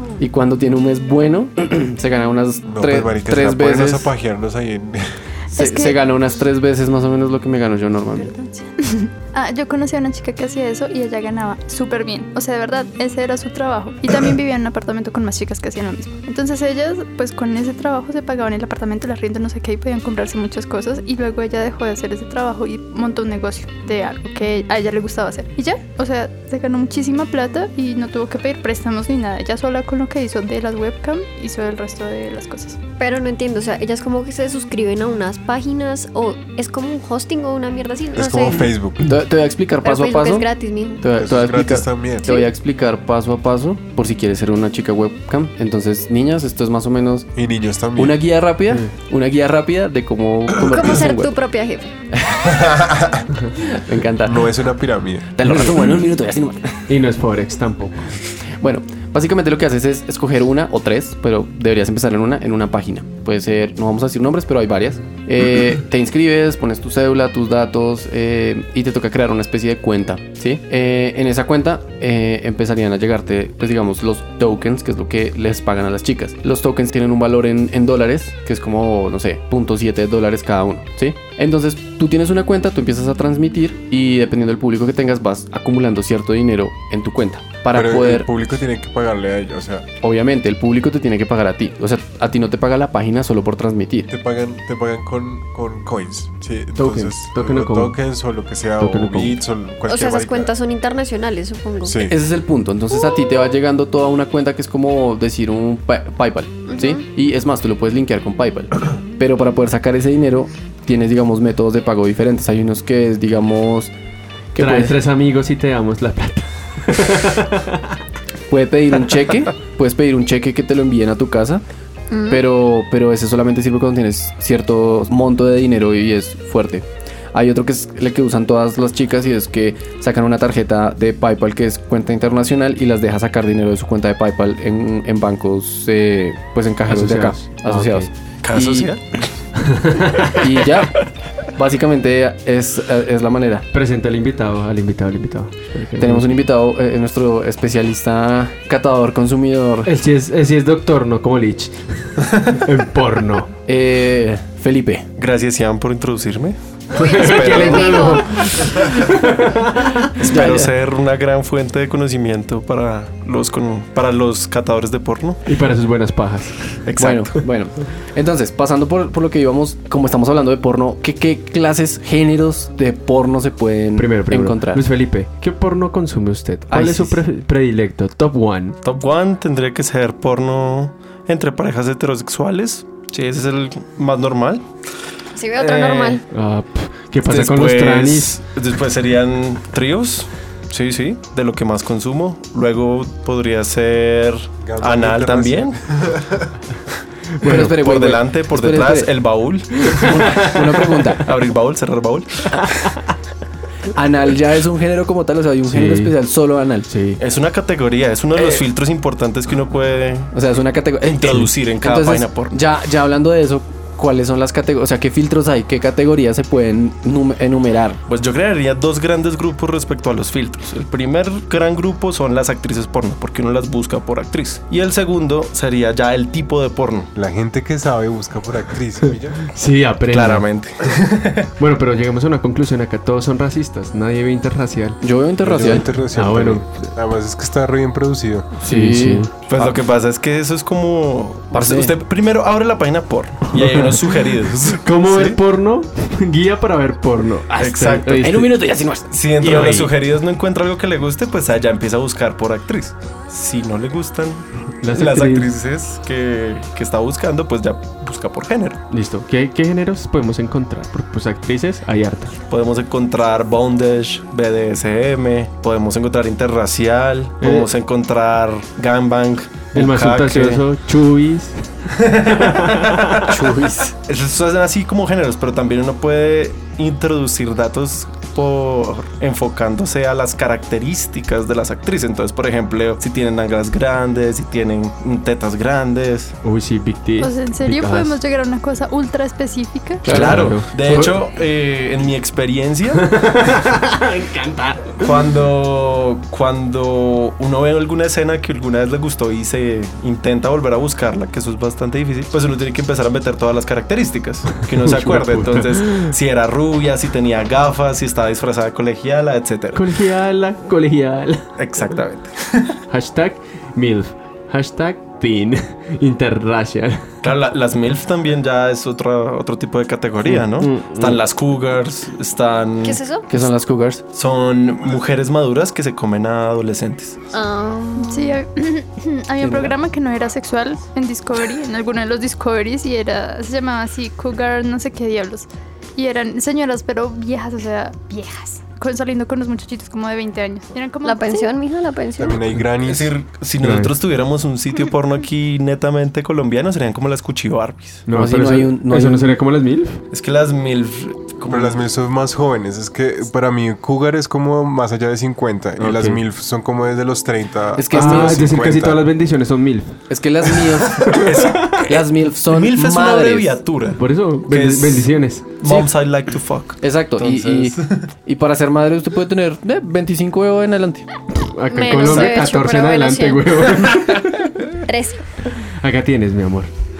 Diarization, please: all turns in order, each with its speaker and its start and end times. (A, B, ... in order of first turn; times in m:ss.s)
0:00.2-0:04.1 A
0:02.6-0:05.2 B
0:05.5-0:08.4 A
0:05.6-0:06.0 C
0:08.3-0:32.8 C
0:33.0-0:38.7 D
0:38.1-0:39.0 B
0:39.0-0:40.4 A
0:39.8-0:41.0 D
0:41.0-0:47.3 A
0:41.2-0:42.3 B
0:42.2-0:42.5 D
0:47.4-0:48.2 B
0:48.0-0:51.3 A
0:50.6-0:51.9 D
0:52.2-0:52.5 A
0:52.5-0:53.2 B
0:53.7-0:54.5 A
0:54.2-0:55.4 B
0:55.4-0:56.8 A
0:56.9-0:58.1 E
0:58.6-1:28.3 A
1:27.7-1:29.9 B
1:30.0-1:34.1 A
1:34.1-1:40.5 B
1:36.8-1:38.0 E
1:38.8-1:39.4 E
1:39.9-1:42.1 D
1:41.8-1:42.2 B
1:42.0-1:53.9 A
1:46.7-1:47.0 D
1:54.5-1:55.0 A
1:54.6-1:57.8 E
1:58.5-2:01.6 A
2:02.1-2:02.4 D
2:02.3-2:18.9 A
2:16.9-2:18.1 E
2:18.4-2:19.0 F
2:19.6-2:20.4 E
2:20.3-2:23.6 A
2:23.7-2:26.3 E
2:26.0-2:29.9 A
2:29.8-2:33.5 E
2:33.7-2:35.1 A
2:35.2-2:38.2 F
2:36.9-2:38.5 D
2:36.9-2:40.1 E
2:40.2-2:45.4 F
2:40.2-2:40.7 A
2:45.4-2:46.8 E
2:46.9-2:47.4 F
2:47.0-2:54.8 A
2:54.0-2:58.8 E
2:56.7-2:57.2 A
2:58.8-3:04.6 F
3:05.3-3:06.2 D
3:05.6-3:06.2 F
3:06.3-3:08.4 E
3:07.2-3:15.8 F
3:14.6-3:16.5 B
3:17.4-3:17.7 E
3:17.4-3:19.1 A
3:17.8-3:19.8 F
3:19.8-3:21.3 A
3:19.9-3:21.0 E
3:21.2-3:22.6 F
3:23.9-3:26.9 A
3:25.6-3:26.1 E
3:26.9-3:27.2 E
3:27.2-3:30.3 F
3:30.3-3:38.0 A
3:31.0-3:32.5 F
3:38.1-3:47.1 F
3:47.1-3:49.4 B
3:49.5-3:50.4 E
3:50.1-3:51.5 F
3:51.6-3:55.0 E
3:55.0-3:55.9 A
3:55.4-3:58.5 B
3:56.1-3:56.9 E
3:58.6-3:59.7 A
3:58.6-3:59.3 E
3:59.5-4:05.4 F
4:01.5-4:01.9 A
4:03.6-4:03.8 E
4:04.8-4:08.6 E
4:07.6-4:08.5 F
4:08.2-4:09.7 A
4:09.1-4:18.8 F
4:09.4-4:09.9 E
4:14.8-4:15.5 E
4:18.9-4:22.3 E
4:22.5-4:30.6 F
4:27.4-4:27.7 E
4:29.7-4:31.6 E
4:32.0-4:33.0 F
4:32.2-4:33.4 E
4:33.3-4:33.9 A
4:34.0-4:46.4 F
4:46.4-4:48.2 E
4:47.2-4:50.1 C
4:50.0-4:51.2 E
4:50.0-4:53.1 F
4:50.1-4:50.5 A
4:53.0-4:55.1 E
4:55.0-5:09.8 F
5:04.8-5:06.1 E
5:09.7-5:11.5 E
5:11.6-5:12.7 F
5:12.9-5:17.0 E
5:17.2-5:23.0 F
5:20.6-5:21.1 A
5:22.8-5:23.3 D
5:23.3-5:24.0 A
5:24.1-5:27.2 F
5:27.3-5:28.4 D
5:28.0-5:41.5 C
5:29.4-5:29.7 A
5:41.0-5:42.4 D
5:42.2-5:43.1 B
5:42.8-5:48.1 F
5:43.6-5:43.9 E
5:48.1-5:50.0 E
5:48.1-5:49.4 A
5:50.1-5:51.8 F
5:51.5-5:59.0 B
5:55.8-5:56.2 E
5:57.8-5:58.5 A
5:57.9-6:00.0 E
6:00.1-6:03.6 A
6:01.0-6:08.1 F
6:04.0-6:05.7 E
6:06.8-6:11.1 A
6:11.3-6:14.3 E
6:11.7-6:14.0 D
6:14.9-6:15.2 D
6:15.8-6:16.7 E